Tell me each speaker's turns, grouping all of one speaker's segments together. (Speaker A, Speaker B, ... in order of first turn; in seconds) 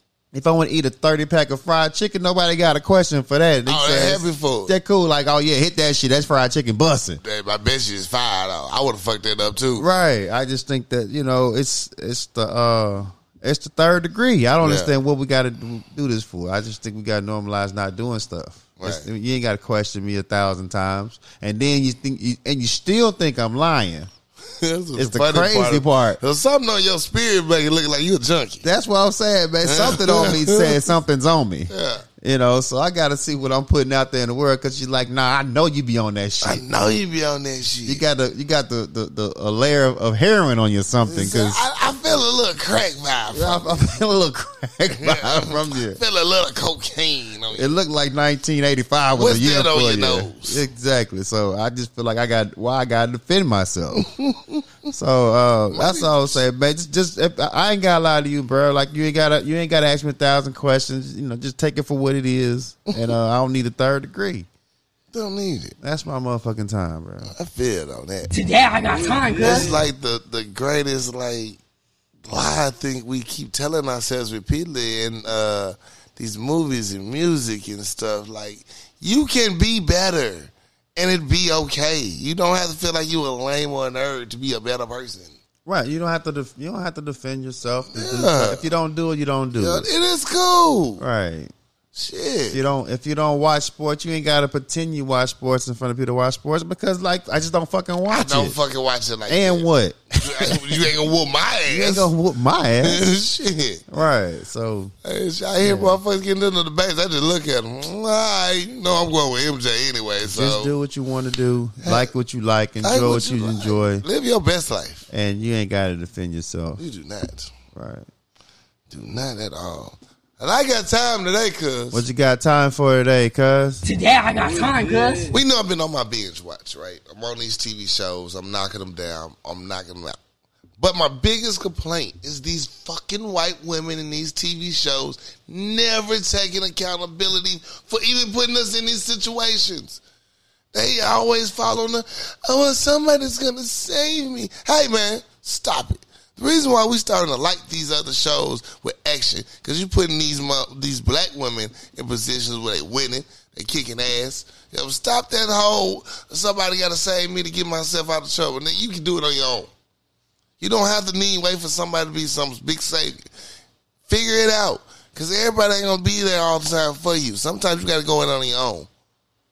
Speaker A: 0.3-7.2, 9.8-24.1, 25.0-26.2, 28.6-36.6, 37.9-41.6, 43.3-46.0, 47.5-54.1, 54.9-64.5, 65.8-67.3, 85.7-89.9, 91.0-91.5, 92.5-98.6, 99.3-100.8, 101.7-103.1, 103.9-104.9, 105.6-106.0, 110.3-114.0, 115.1-116.8, 117.7-118.1, 121.9-123.8
Speaker B: 3.7-4.7, 7.2-9.9, 14.6-14.9, 18.8-19.1, 24.5-28.6, 29.6-30.9, 31.7-32.0, 36.4-38.1, 41.1-43.8, 45.0-47.7, 49.2-50.6, 54.0-54.6, 55.7-56.4, 65.1-65.8, 67.3-68.3, 69.4-71.6, 72.3-85.4, 87.9-88.7, 89.5-91.0, 92.0-92.6, 98.1-99.7, 100.2-102.1, 102.8-103.8, 105.0-110.7, 111.8-112.1, 112.8-115.1, 116.8-117.5, 118.9-122.0, 125.3-130.2, 130.8-140.0, 140.7-159.7, 160.6-163.3, 164.1-168.9
Speaker C: 68.3-69.7, 123.8-125.3